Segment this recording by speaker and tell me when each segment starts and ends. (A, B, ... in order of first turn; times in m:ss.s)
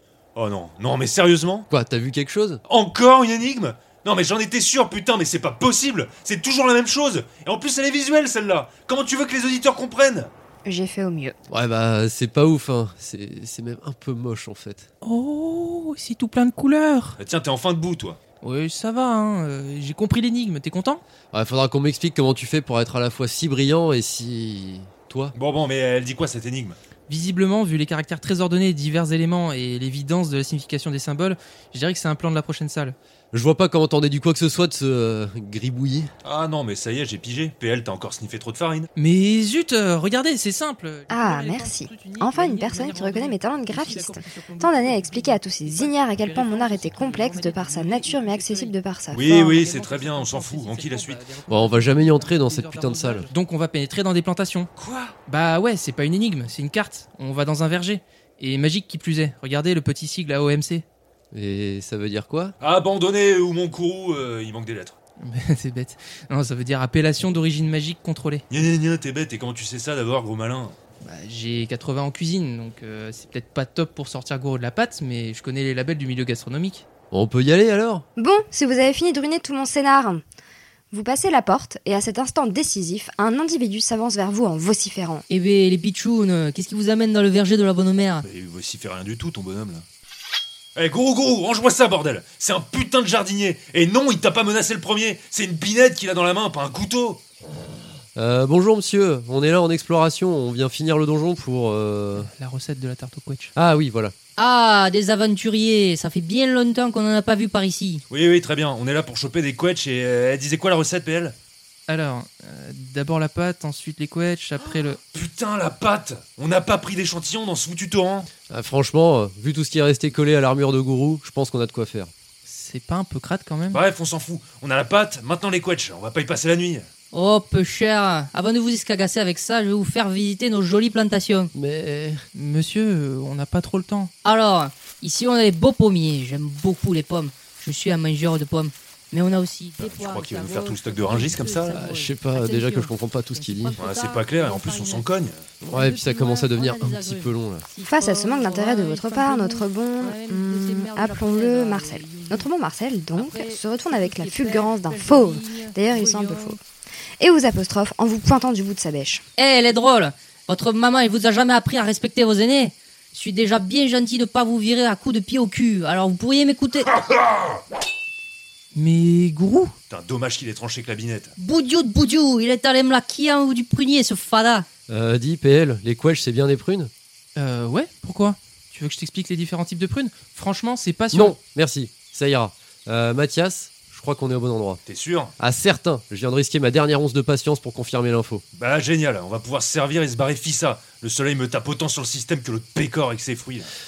0:00.4-0:01.7 A
0:01.7-0:02.6 B
0:02.7-0:10.3 A
0:10.6-0:11.4 C
0:11.5-0:14.9 B
0:15.0-0:17.2 D
0:17.2-0:18.2 A
0:18.4-0:21.0 D
0:21.3-0:25.4 B
0:25.4-0:26.8 A
0:27.1-0:33.0 D
0:33.3-0:36.1 B
0:36.2-0:38.9 A
0:39.0-0:54.7 D
0:41.1-0:49.6 C
0:49.1-0:51.2 A
0:51.5-0:53.3 B
0:54.8-0:55.2 A
0:55.3-1:00.8 D
1:01.3-1:02.5 B
1:02.6-1:05.0 A
1:05.2-1:08.4 D
1:08.5-1:10.8 A
1:11.0-1:16.9 D
1:17.1-1:18.0 B
1:18.2-1:20.2 C
1:20.9-1:25.3 C
1:25.3-1:28.2 E
1:28.2-1:29.9 A
1:30.8-1:37.2 A
1:38.2-1:42.3 B
1:42.2-1:43.5 D
1:43.6-1:44.2 B
1:44.4-1:48.0 E
1:48.1-1:51.4 A
1:51.9-1:55.0 D
1:55.1-1:58.3 A
1:58.5-2:02.1 B
2:02.5-2:03.8 D
2:03.7-2:06.9 A
2:07.1-2:11.5 E
2:11.5-2:12.2 B
2:12.3-2:14.1 D
2:14.2-2:25.0 E
2:19.8-2:21.8 A
2:21.7-2:23.8 B
2:23.8-2:25.4 A
2:25.6-2:27.6 B
2:25.7-2:32.5 E
2:27.8-2:36.6 C
2:33.2-2:36.6 E
2:37.2-2:39.2 C
2:39.4-2:46.9 E
2:48.7-2:49.7 D
2:49.9-2:51.3 A
2:51.4-2:54.7 E
2:54.9-2:56.9 B
2:57.4-3:01.4 D
3:01.1-3:04.8 B
3:04.9-3:05.3 A
3:05.4-3:08.4 B
3:08.6-3:13.7 A